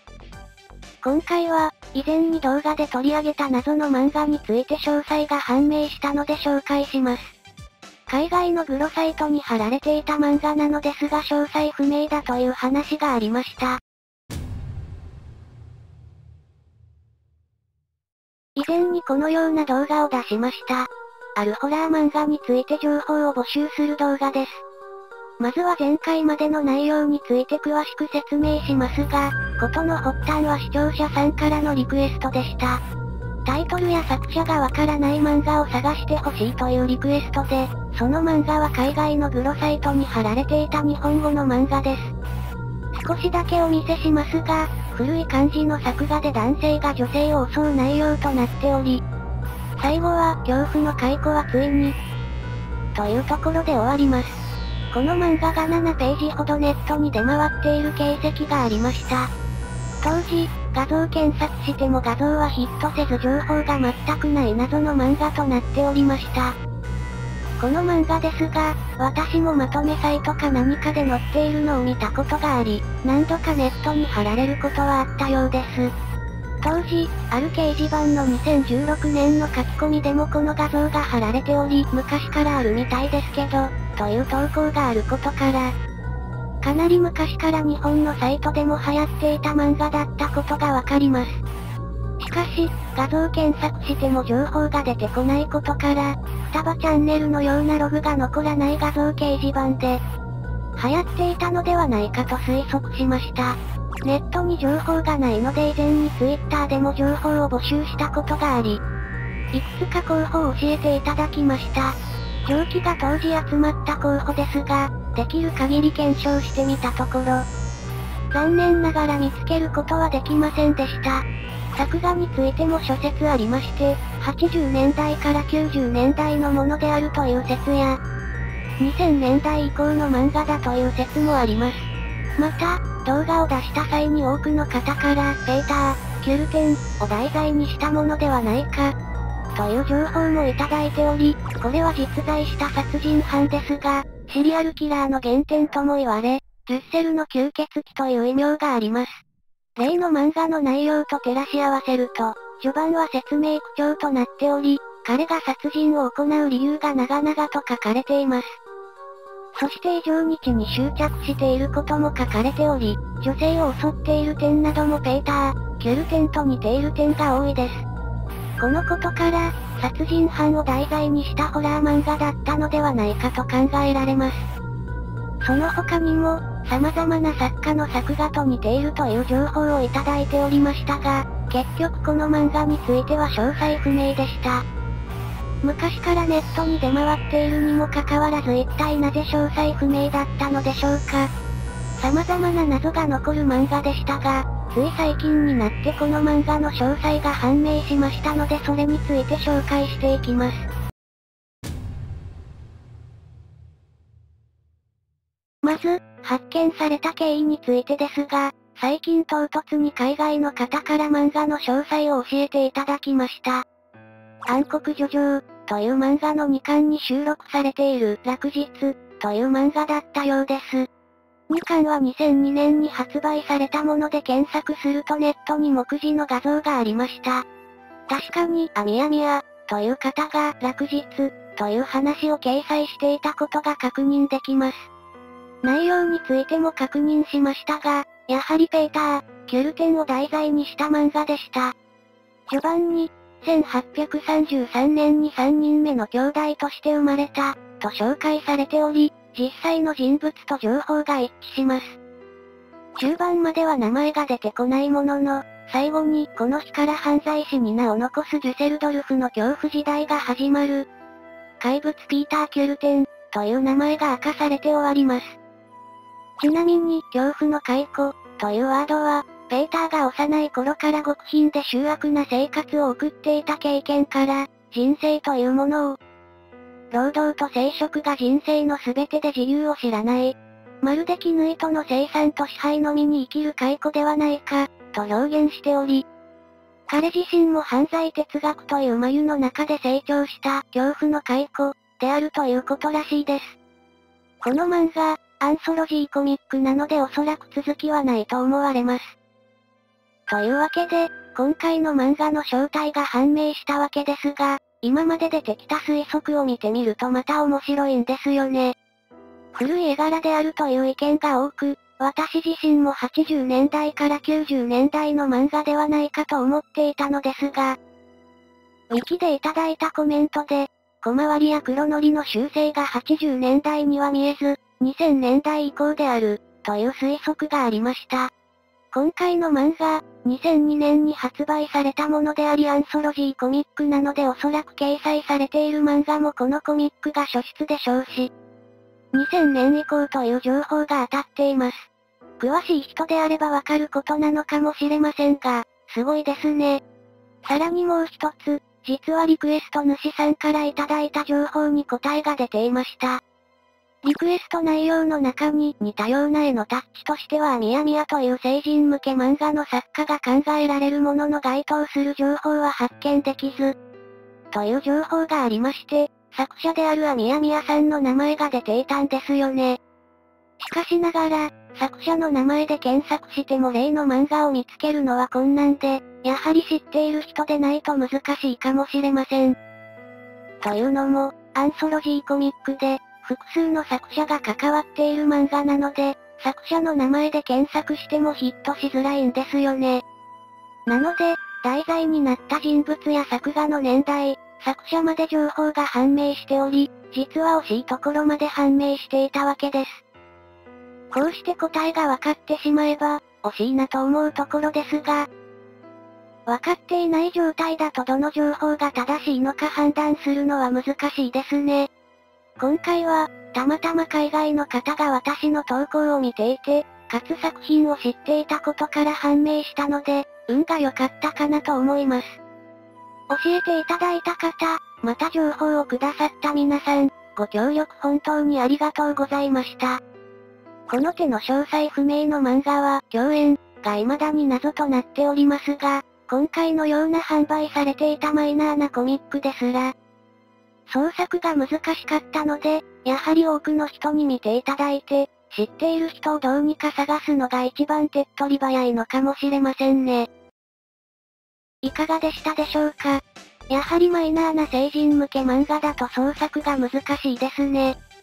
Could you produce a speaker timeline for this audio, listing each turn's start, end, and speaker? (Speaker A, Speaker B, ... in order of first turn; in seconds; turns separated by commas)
Speaker A: 1.0-7.3, Speaker A: 8.1-13.8, Speaker A: 18.6-24.6, Speaker A: 25.4-32.8, Speaker A: 33.5-42.1, Speaker A: 42.9-49.0, Speaker A: 49.8-52.0, Speaker A: 53.0-54.4, Speaker A: 54.9-59.3, Speaker A: 60.0-66.6, Speaker A: 67.6-75.9, Speaker A: 76.6-85.8, Speaker A: 86.6-91.4, Speaker A: 92.2-100.0, Speaker A: 100.8-108.8, Speaker A: 109.5-117.5, Speaker A: 118.3-128.0, Speaker A: 128.8-139.0, Speaker A: 139.5-149.2, Speaker A: 149.8-158.6, Speaker A: 159.6-167.9, Speaker A: 168.6-174.5, Speaker A: 175.4-184.7, Speaker A: 185.6-191.3, Speaker A: 192.0-200.7, Speaker A: 205.6-213.7, Speaker A: 214.5-220.9, Speaker A: 221.5-227.5, Speaker A: 228.1-234.9, Speaker A: 235.6-241.8, Speaker A: 242.5-252.0, Speaker A: 253.0-260.9, Speaker A: 261.6-265.4, Speaker A: 266.4-276.0, Speaker A: 276.9-286.1, Speaker A: 286.9-293.6, Speaker A: 294.4-299.2, Speaker A: 300.3-308.8, Speaker A: 309.6-317.8, Speaker A: 318.9-328.3, Speaker A: 328.9-338.3, Speaker A: 339.1-346.8, Speaker A: 347.4-353.2, Speaker A: 354.0-363.8, Speaker A: 364.5-369.8, Speaker A: 370.6-379.6, Speaker A: 380.6-390.0, Speaker A: 390.9-400.0, Speaker A: 401.1-405.3, Speaker A: 406.5-411.9, Speaker A: 412.6-422.4, Speaker A: 423.3-430.0, Speaker A: 430.9-439.9, Speaker A: 440.9-450.3, Speaker A: 451.8-458.0